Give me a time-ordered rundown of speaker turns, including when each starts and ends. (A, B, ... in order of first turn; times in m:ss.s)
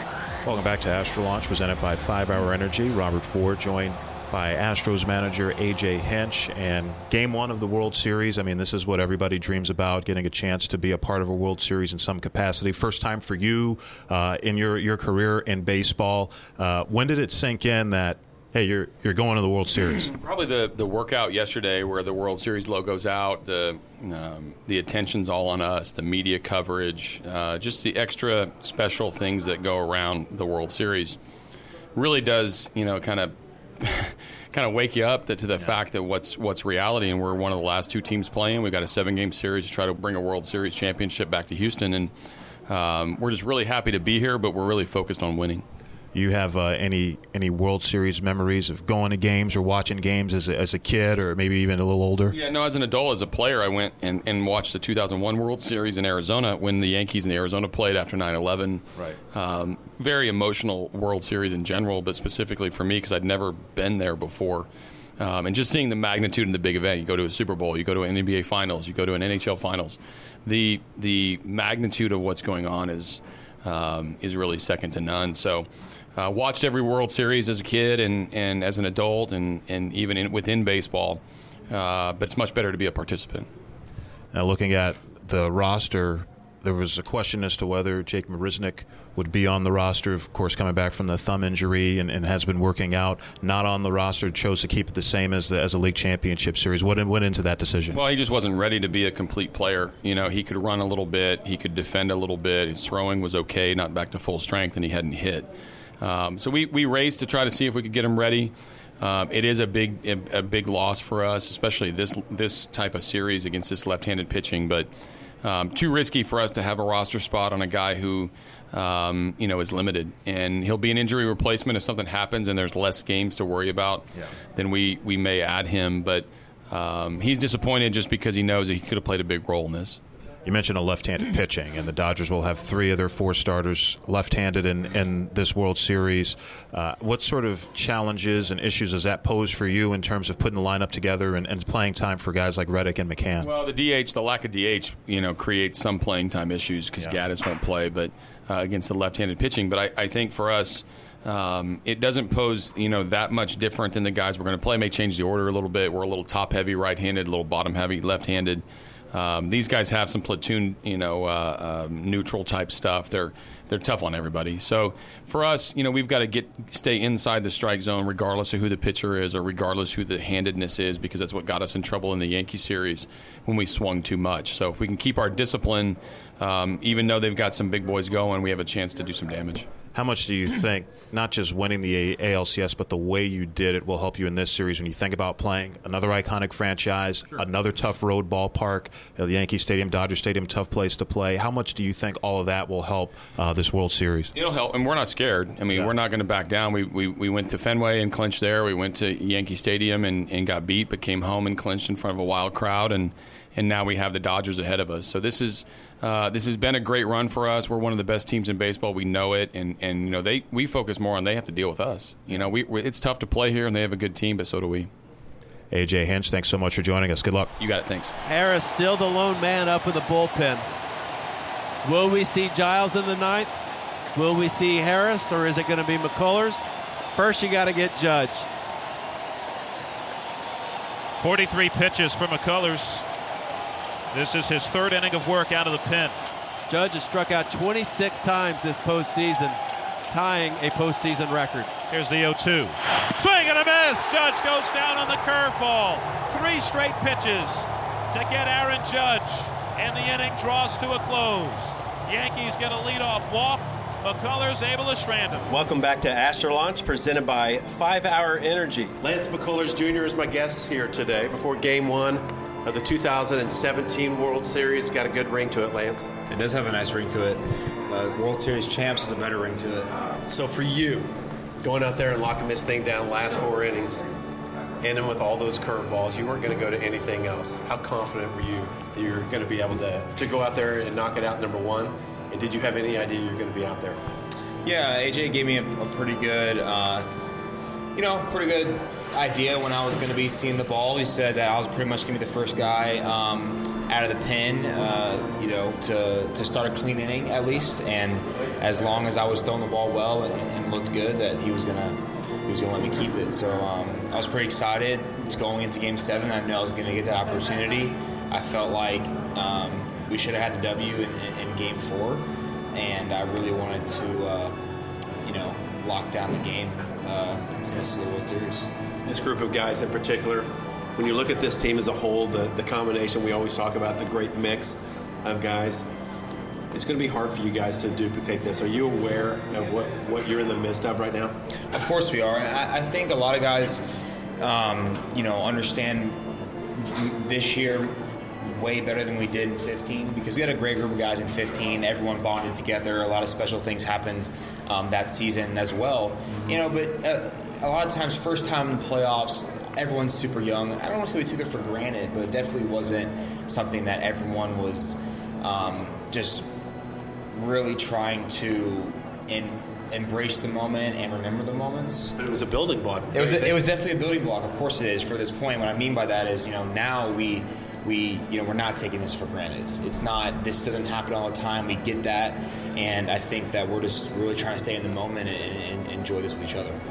0:00.4-0:20.1 A
0:20.0-0:31.2 B
0:31.9-0:42.1 B
0:42.7-0:45.6 B
0:46.1-0:52.4 A
0:52.3-1:04.7 B
1:05.2-1:23.5 B
1:24.3-1:38.0 A
1:37.9-1:45.5 B
1:46.0-1:54.9 B
1:55.4-2:10.0 B
2:10.4-2:23.5 A
2:23.4-2:59.7 B
2:59.9-3:14.3 A
3:14.3-3:34.9 B
3:35.7-3:37.5 A
3:37.6-3:38.2 B
3:38.2-3:40.6 C
3:41.8-3:43.5 C
3:44.1-3:48.5 C
3:51.2-3:53.0 D
3:54.1-3:56.2 D
3:56.7-3:59.6 C
4:00.1-4:01.7 C
4:01.9-4:15.5 D
4:15.4-4:26.1 E
4:26.3-4:29.9 F
4:30.3-4:34.0 E
4:34.8-4:44.0 E
4:44.6-4:47.1 F
4:47.9-5:14.6 F
5:15.2-5:18.7 F
5:19.0-5:25.8 E
5:26.7-5:31.3 E
5:31.7-5:33.8 F
5:34.4-5:56.5 F
5:57.3-6:02.2 F
6:02.2-6:03.6 E
6:03.1-6:16.8 F